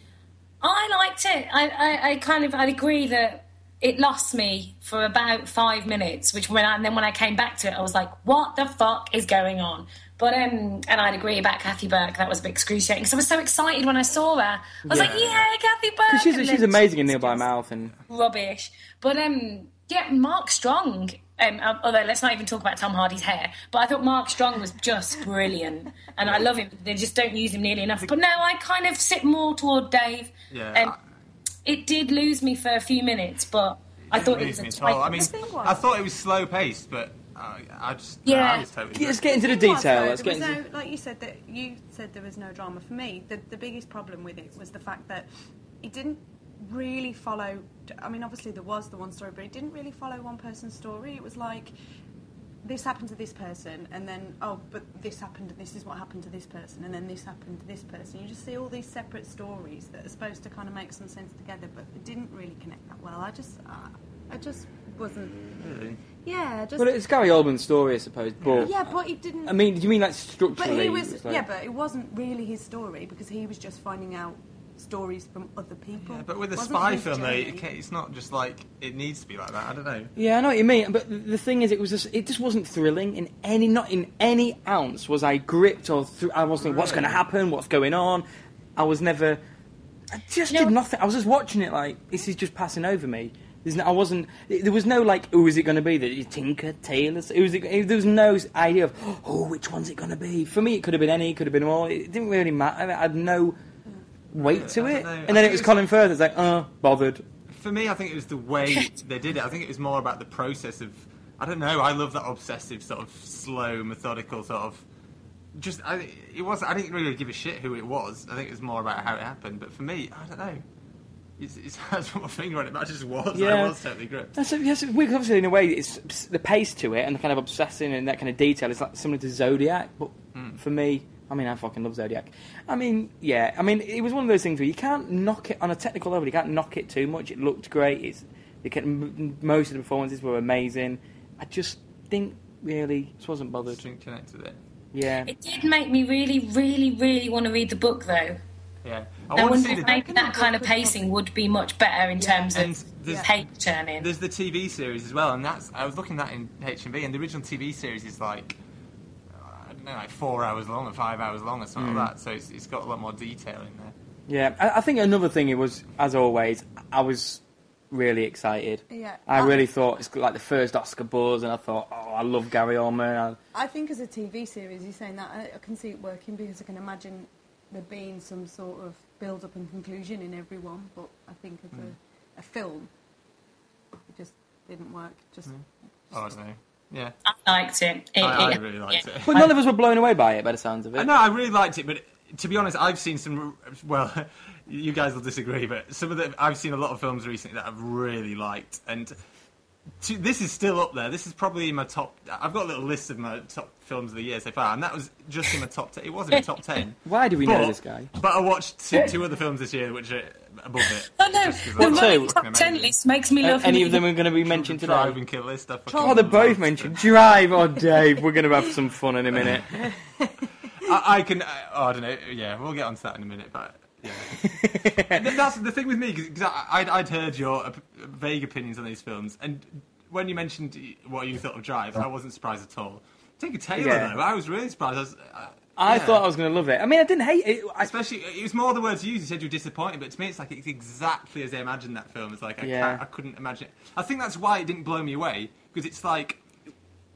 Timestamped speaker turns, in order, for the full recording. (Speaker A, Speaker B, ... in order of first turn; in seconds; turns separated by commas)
Speaker A: 0.6-17.4, Speaker B: 14.8-15.2, Speaker C: 14.9-15.5, Speaker B: 16.1-17.9, Speaker A: 18.1-30.9, Speaker C: 30.5-31.0, Speaker A: 31.6-35.3, Speaker C: 34.1-39.2, Speaker D: 35.0-35.8, Speaker A: 38.2-38.7, Speaker B: 38.9-40.6, Speaker D: 39.3-45.3, Speaker D: 45.8-51.7, Speaker D: 52.6-65.5, Speaker C: 65.6-66.0, Speaker D: 66.2-66.9, Speaker B: 66.8-68.9, Speaker C: 68.4-68.7, Speaker D: 68.6-69.6, Speaker B: 69.4-71.4, Speaker D: 70.5-77.7, Speaker C: 76.0-80.1, Speaker B: 80.2-88.2, Speaker C: 86.6-87.2, Speaker B: 88.8-89.4, Speaker B: 90.1-103.6, Speaker B: 104.3-107.2, Speaker C: 104.3-105.8, Speaker C: 107.5-114.8, Speaker C: 115.5-120.6, Speaker C: 121.4-124.4, Speaker B: 123.3-123.8, Speaker B: 124.3-143.8, Speaker C: 143.7-144.6, Speaker B: 144.9-145.3, Speaker A: 145.2-148.4, Speaker C: 148.8-149.9, Speaker A: 149.3-154.1, Speaker D: 149.6-151.1, Speaker D: 152.2-153.3, Speaker C: 152.5-153.4, Speaker C: 154.0-158.6, Speaker C: 159.3-163.9, Speaker B: 161.8-162.1, Speaker B: 164.3-173.4, Speaker D: 168.9-169.6, Speaker D: 173.5-182.9, Speaker D: 184.1-185.5, Speaker C: 185.5-187.2, Speaker A: 187.3-189.0, Speaker C: 188.2-189.5, Speaker B: 189.3-191.1, Speaker C: 190.9-199.1, Speaker C: 200.0-212.9, Speaker B: 207.1-208.1, Speaker A: 211.2-214.1, Speaker B: 211.8-212.4, Speaker B: 213.4-215.2, Speaker C: 214.4-217.0, Speaker D: 215.9-216.4, Speaker B: 216.0-219.8, Speaker C: 219.3-219.6, Speaker C: 220.8-224.4, Speaker B: 224.3-225.3, Speaker C: 225.1-236.2, Speaker B: 233.8-234.2, Speaker B: 235.8-237.9, Speaker C: 237.8-246.4, Speaker B: 242.6-243.0